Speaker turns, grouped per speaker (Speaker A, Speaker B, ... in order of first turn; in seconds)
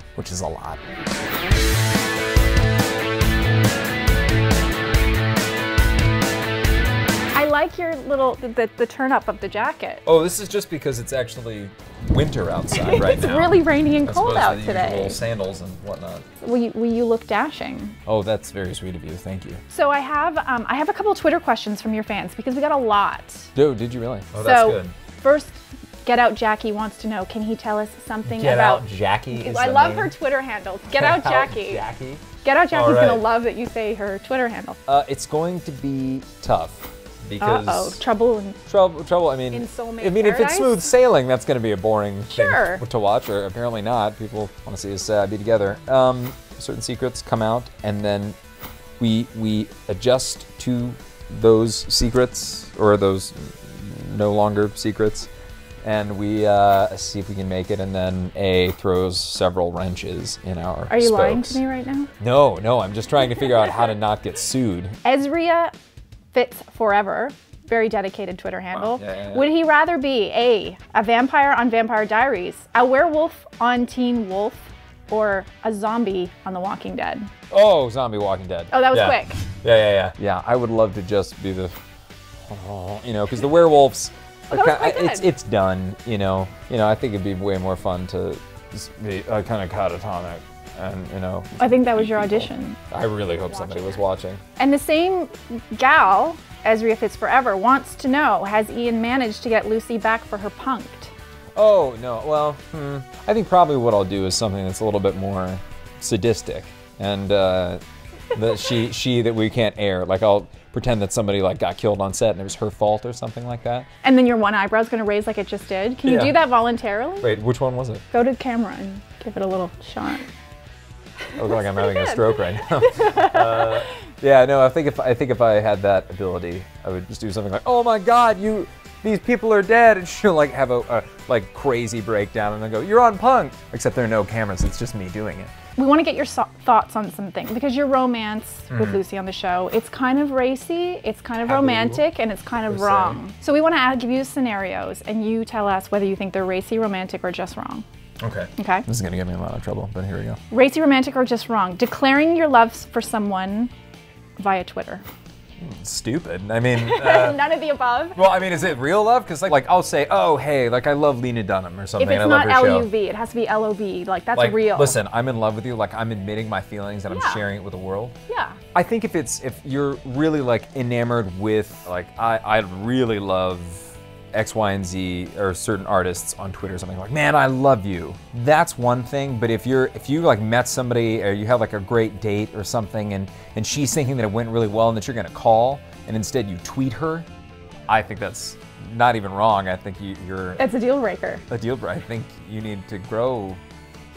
Speaker A: 0.2-0.9, 10.1-16.2, 18.1-19.6, 23.5-24.9, 28.2-30.1, 30.9-33.2, 34.9-38.0, 38.7-48.4, 49.0-55.3, 55.8-61.6, 62.2-65.0, 68.7-69.5, 77.5-81.7, 82.5-94.4, 101.5-107.8, 108.3-113.9, 116.0-116.5, 117.2-118.0, 121.3-135.5, 138.7-139.0, 141.4-142.0, 142.7-143.2, 148.2-150.4, 155.6-157.4, 158.2-162.9, 164.3-168.2, 168.7-187.3, 187.9-190.6, 191.5-193.6
Speaker B: 7.3-10.0, 12.7-15.2, 16.4-17.9, 19.7-23.5, 24.4-31.8, 32.4-34.8, 37.4-38.6, 39.5-40.8, 42.3-42.8, 60.9-62.1, 65.0-65.7, 66.3-77.3, 78.7-79.4, 84.5-85.3, 91.6-92.8, 93.5-94.0, 94.6-101.1, 114.0-117.3, 118.1-120.3, 121.5-123.8, 135.8-147.8, 148.6-148.8, 150.5-153.7, 154.4-155.1, 156.8-158.2, 162.0-165.0, 167.1-167.4, 168.3-168.6, 190.6-191.4